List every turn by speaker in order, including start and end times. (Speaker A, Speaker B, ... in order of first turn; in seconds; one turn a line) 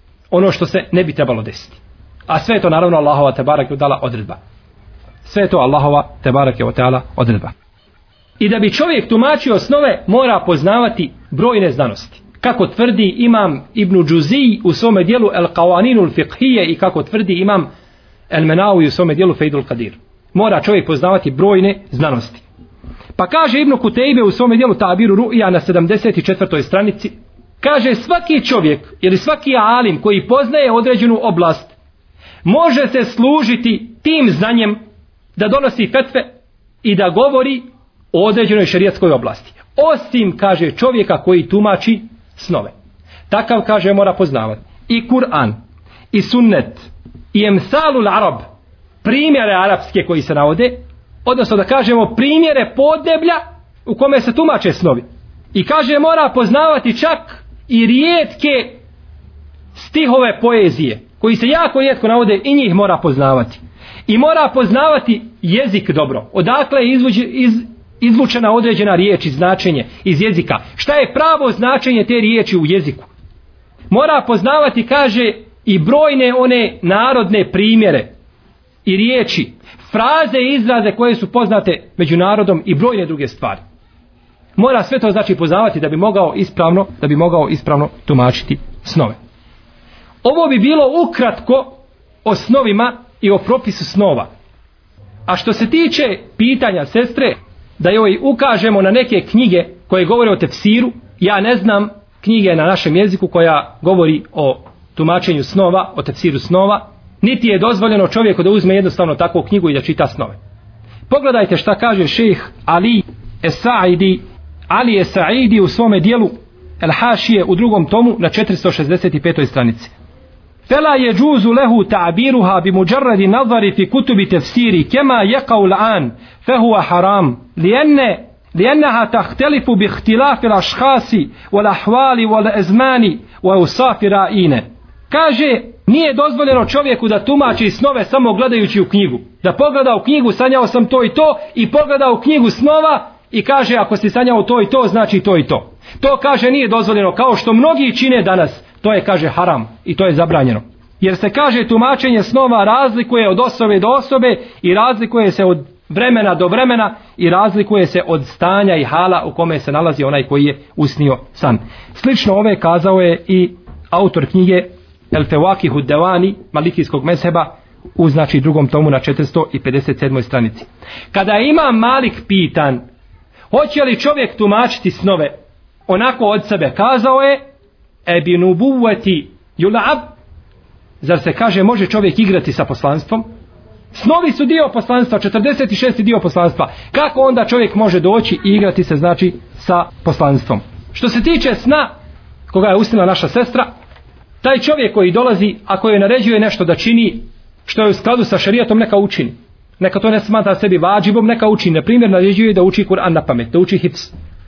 Speaker A: 0.3-4.4
Speaker A: 5.2-7.5
Speaker A: 8.4-17.7
Speaker A: 18.3-22.4
Speaker A: 23.1-31.7
Speaker A: 32.4-34.8
Speaker A: 35.4-36.3
Speaker A: 36.8-42.7
Speaker A: 43.3-45.6
Speaker A: 46.1-48.4
Speaker A: 49.0-58.8
Speaker A: 59.7-73.1
Speaker A: 73.9-78.1
Speaker A: 78.8-83.6
Speaker A: 84.5-89.2
Speaker A: 90.2-94.3
Speaker A: 95.2-110.4
Speaker A: 111.1-119.9
Speaker A: 120.7-172.8
Speaker A: 173.5-175.3
Speaker A: 175.9-177.4
Speaker A: 178.1-180.1
Speaker A: 181.0-183.2
Speaker A: 183.9-191.9
Speaker A: 192.5-193.7
Speaker A: 194.4-204.1